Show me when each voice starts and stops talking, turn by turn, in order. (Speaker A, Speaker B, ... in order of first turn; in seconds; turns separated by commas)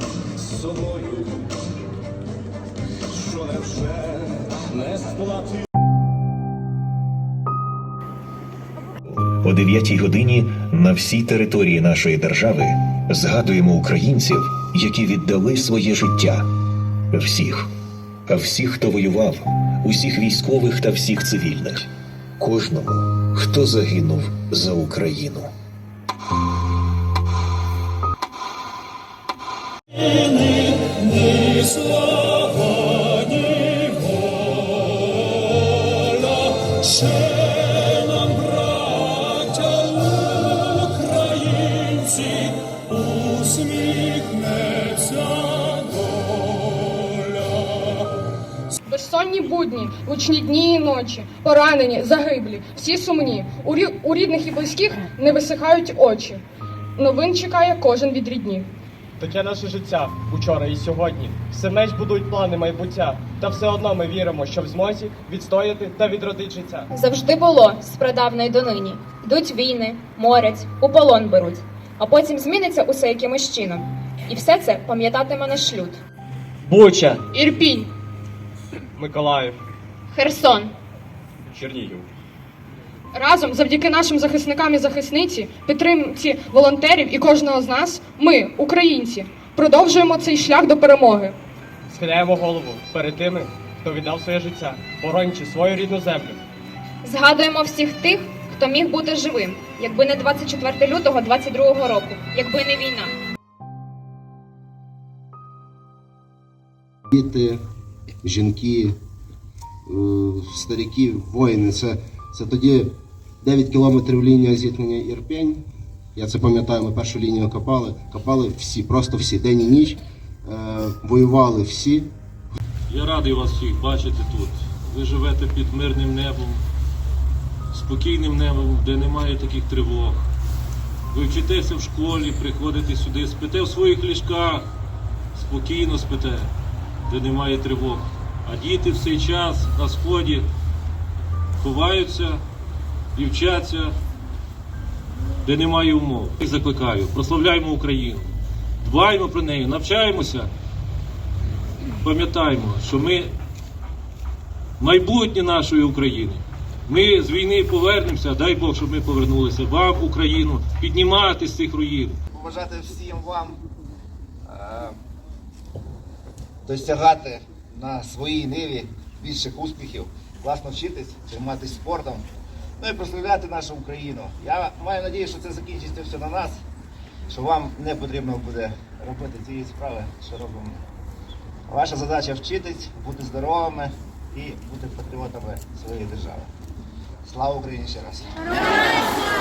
Speaker A: 0.4-1.3, Speaker A: 3.1-5.5, Speaker B: 9.1-16.4, Speaker B: 17.1-17.7, Speaker B: 18.3-25.5, Speaker C: 30.9-31.9, Speaker C: 36.4-42.5, Speaker D: 48.9-56.4, Speaker D: 57.0-58.7, Speaker E: 59.2-66.9, Speaker F: 66.9-76.0, Speaker E: 76.7-77.2, Speaker D: 77.3-77.9, Speaker E: 79.0-79.6, Speaker F: 80.1-80.7, Speaker E: 81.5-82.1, Speaker D: 83.1-91.3, Speaker E: 91.9-96.4, Speaker F: 97.0-103.1, Speaker G: 107.1-107.6, Speaker G: 108.2-109.0, Speaker G: 109.9-115.6, Speaker G: 116.2-122.1, Speaker C: 122.9-126.6, Speaker C: 127.7-130.3, Speaker C: 131.1-134.7, Speaker C: 135.3-136.5, Speaker C: 137.1-140.5, Speaker C: 141.6-142.4, Speaker C: 143.2-143.9, Speaker C: 145.4-148.3, Speaker C: 148.8-150.5, Speaker C: 152.0-153.3, Speaker C: 154.8-162.2, Speaker H: 162.3-163.6, Speaker H: 164.5-165.0, Speaker H: 166.7-172.2, Speaker H: 172.8-176.6, Speaker H: 177.3-180.8, Speaker H: 181.7-186.5, Speaker H: 187.2-188.8